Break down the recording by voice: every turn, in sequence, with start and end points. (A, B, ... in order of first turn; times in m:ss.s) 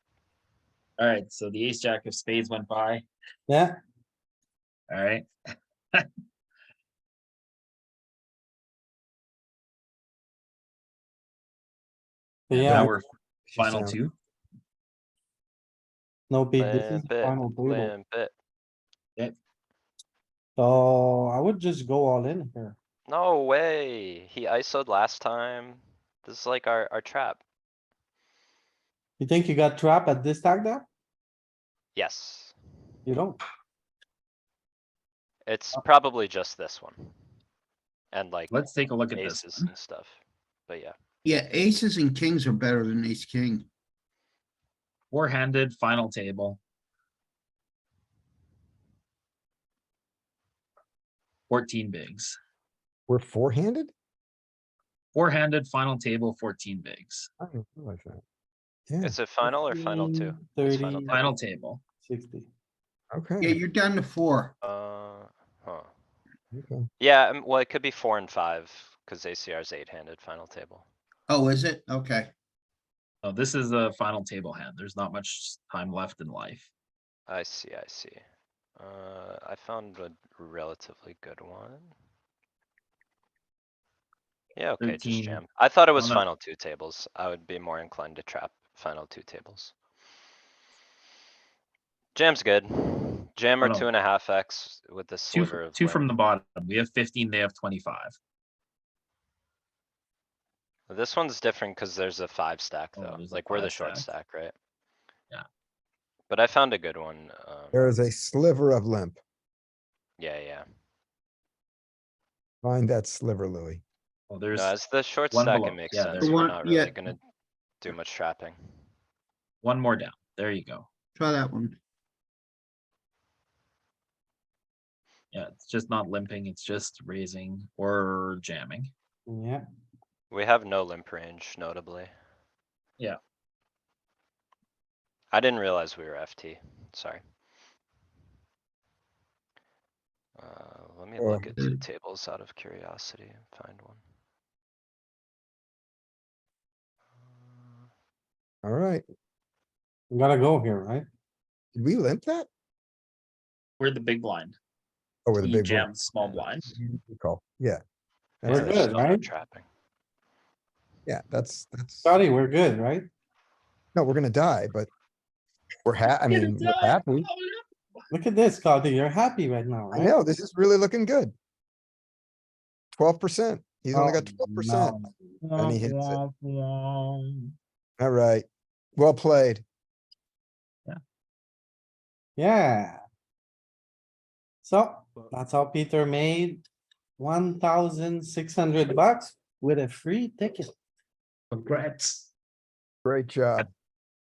0:01.0-0:03.0 A
0:03.5-0:03.8 B
0:04.9-0:05.3 A
0:12.5-0:12.9 B
0:12.5-0:12.9 C
0:12.6-0:13.1 A
0:13.5-0:14.0 C
0:13.6-0:14.1 A
0:16.3-0:17.9 B
0:16.6-0:18.3 D
0:20.6-0:22.8 B
0:23.1-0:27.4 D
0:29.2-0:30.9 B
0:32.0-0:32.5 D
0:33.1-0:33.4 B
0:35.5-0:37.2 D
0:38.1-0:41.0 D
0:38.5-0:39.7 A
0:41.2-0:43.7 E
0:45.1-0:46.6 A
0:51.5-0:52.4 A
0:53.1-0:53.9 C
0:55.2-0:57.3 A
0:57.4-0:58.2 C
0:58.9-0:59.2 C
0:59.0-1:01.4 D
0:59.8-1:01.3 B
1:01.1-1:01.8 A
1:02.0-1:02.5 B
1:03.1-1:03.6 C
1:03.4-1:04.5 E
1:04.6-1:05.9 D
1:06.5-1:06.9 C
1:07.0-1:10.8 D
1:11.3-1:12.3 E
1:13.2-1:16.7 A
1:17.3-1:18.2 D
1:18.8-1:21.9 D
1:24.6-1:29.7 D
1:24.8-1:25.4 A
1:26.0-1:26.2 A
1:32.2-1:36.1 D
1:33.6-1:33.9 A
1:35.3-1:38.2 A
1:40.9-1:44.5 D
1:43.0-1:44.1 A
1:46.3-1:47.9 D
1:47.7-1:49.2 C
1:50.2-1:50.6 D
1:52.6-1:53.8 C
1:54.3-1:54.8 A
1:54.5-1:57.2 D
1:55.3-1:56.5 A
1:56.2-1:57.0 E
1:57.8-1:58.6 D
1:59.6-2:00.9 A
2:01.2-2:01.8 E
2:05.3-2:08.9 A
2:09.3-2:09.6 B
2:10.3-2:12.1 D
2:15.3-2:17.2 D
2:20.4-2:24.0 D
2:21.2-2:21.6 C
2:28.6-2:29.0 C
2:30.1-2:31.1 B
2:31.8-2:32.5 C
2:33.8-2:34.6 A
2:35.3-2:36.0 C
2:35.4-2:36.7 A
2:36.1-2:36.5 D
2:36.7-2:37.8 C
2:38.4-2:39.0 C
2:38.5-2:39.7 D
2:38.5-2:39.2 B
2:41.1-2:42.2 C
2:42.0-2:43.1 B
2:44.0-2:44.9 C
2:45.9-2:47.3 C
2:46.3-2:47.6 A
2:48.1-2:50.1 B
2:49.9-2:51.3 C
2:53.0-2:55.0 C
2:53.9-2:55.0 B
2:55.0-2:57.5 A
2:55.6-2:56.2 C
2:58.0-2:59.6 C
3:02.4-3:03.0 B
3:04.6-3:06.6 B
3:07.2-3:10.7 B
3:11.5-3:12.3 E
3:13.0-3:13.7 C